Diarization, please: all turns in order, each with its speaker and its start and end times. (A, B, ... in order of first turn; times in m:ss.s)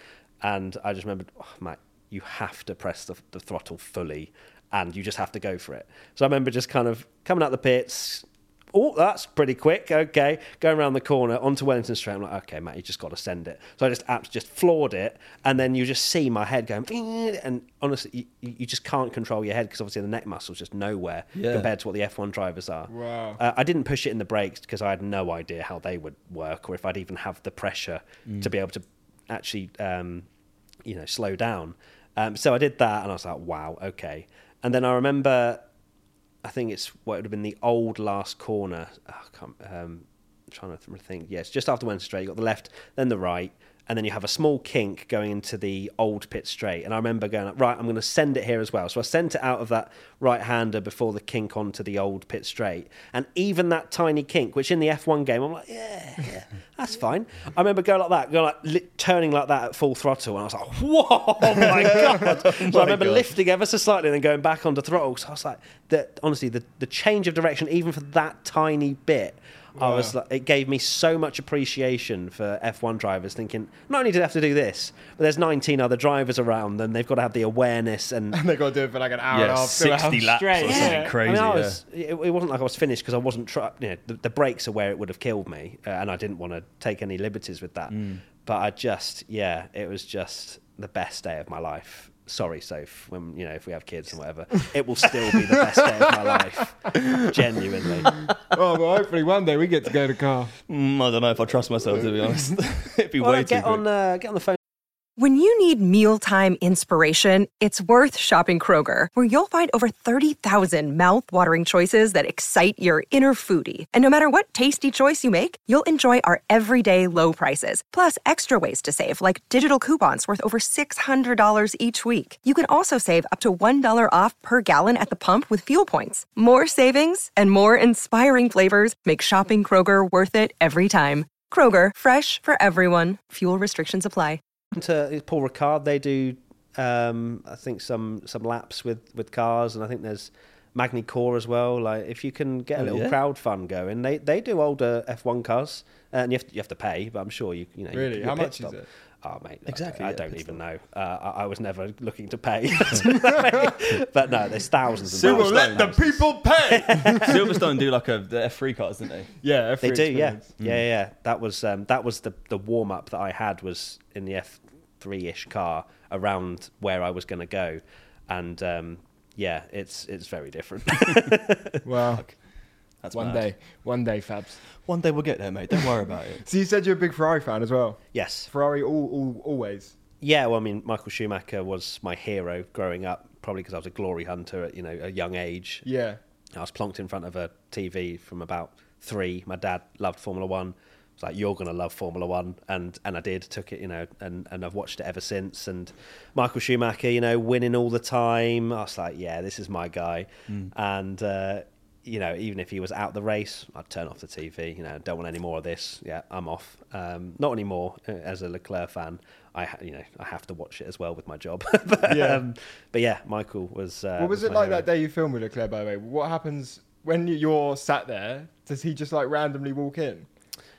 0:00.4-0:30.3 A
0:21.3-0:21.7 B
0:22.9-0:23.4 C
0:30.8-0:35.7 A
0:36.4-1:18.4 A
1:01.5-1:03.3 B
1:09.8-1:10.1 C
1:18.3-1:21.1 C
1:19.3-1:21.8 B
1:20.6-1:38.1 A
1:27.9-1:28.2 B
1:38.5-1:40.5 C
1:40.7-1:43.8 B
1:43.2-1:44.6 A
1:45.2-2:14.4 D
2:14.7-2:37.4 A
2:22.8-2:23.2 B
2:27.9-2:28.9 C
2:29.7-2:30.6 B
2:35.1-2:36.0 B
2:35.2-2:37.4 C
2:37.2-2:39.3 B
2:39.4-2:40.4 C
2:39.8-2:51.8 A
2:51.8-2:52.2 C
2:53.0-2:53.4 B
2:53.1-2:54.6 C
2:54.8-2:56.4 B
2:56.4-2:59.9 C
2:58.1-2:58.5 A
3:00.2-3:05.8 A
3:05.8-3:06.2 C
3:06.5-3:34.8 A
3:32.1-3:32.4 C
3:34.2-3:40.3 C